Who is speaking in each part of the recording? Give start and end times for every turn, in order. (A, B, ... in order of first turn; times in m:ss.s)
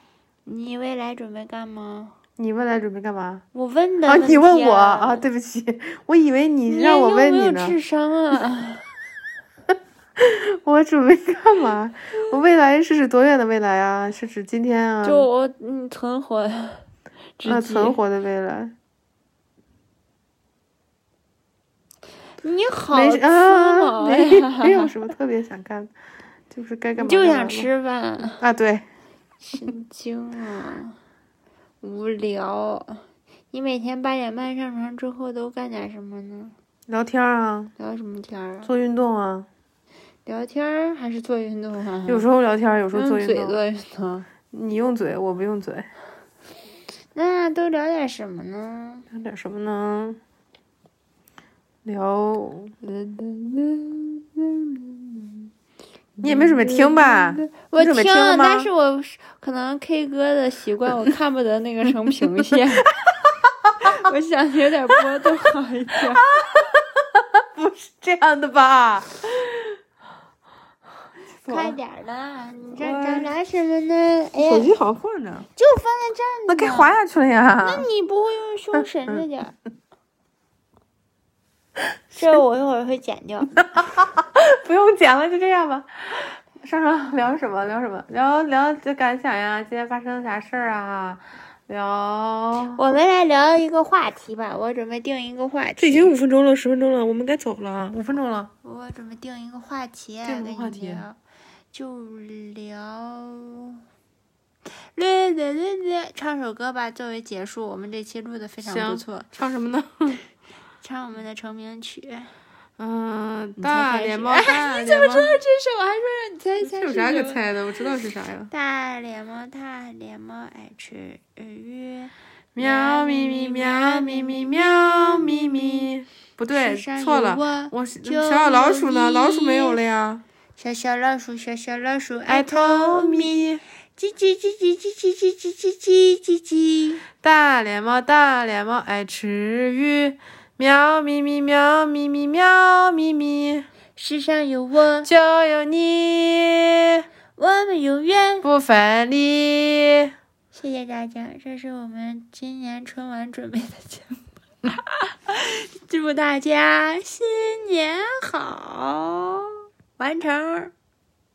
0:00.5-0:02.1 A
0:02.4-0:03.4 B
0:03.5-0:05.2 A
0:04.1-0:07.8 B
0:06.7-0:08.9 A
0:10.2-0:15.3 B
0:15.0-0:16.9 A
0:17.4-0:18.0 A
0:17.4-0:18.7 B
0:22.4-0:24.9 A
0:22.9-0:25.9 B
0:26.5-0:27.7 B
0:27.0-0:28.4 A
0:28.4-0:28.9 B
0:29.4-0:31.0 A
0:31.8-0:36.6 A
0:36.9-0:37.7 B
0:37.8-0:38.7 A
0:38.6-0:39.5 B
0:40.3-0:42.3 A
0:42.1-0:43.6 B
0:42.9-0:44.3 A
0:44.5-0:45.9 B
0:47.2-0:49.1 A
0:49.1-0:50.2 B
0:51.8-0:52.8 B
0:52.8-0:55.5 A
0:56.2-1:02.9 A
0:56.2-0:58.7 B
1:03.8-1:06.3 A
1:06.2-1:09.8 B
1:11.4-1:14.7 A
1:11.4-1:11.8 B
1:12.8-1:13.3 B
1:14.4-1:15.5 B
1:15.6-1:17.0 A
1:16.5-1:17.9 B
1:17.6-1:19.6 A
1:18.8-1:19.2 B
1:22.2-1:23.7 A
1:23.6-1:32.8 B
1:32.7-1:36.1 A
1:35.8-1:38.5 B
1:38.6-1:41.2 A
1:40.2-1:41.1 B
1:41.7-1:43.8 A
1:44.8-1:49.3 A
1:48.6-1:50.2 B
1:50.8-1:52.3 A
1:52.8-1:55.4 B
1:53.6-1:57.4 A
1:56.6-1:58.5 B
1:58.5-2:05.9 A
2:02.6-2:10.2 B
2:06.5-2:09.8 A
2:10.6-2:13.4 A
2:12.3-2:13.6 B
2:14.0-2:17.0 A
2:17.2-2:23.7 B
2:24.0-2:25.1 A
2:25.0-2:27.1 B
2:27.4-2:28.5 A
2:28.4-2:30.1 B
2:30.5-2:40.7 A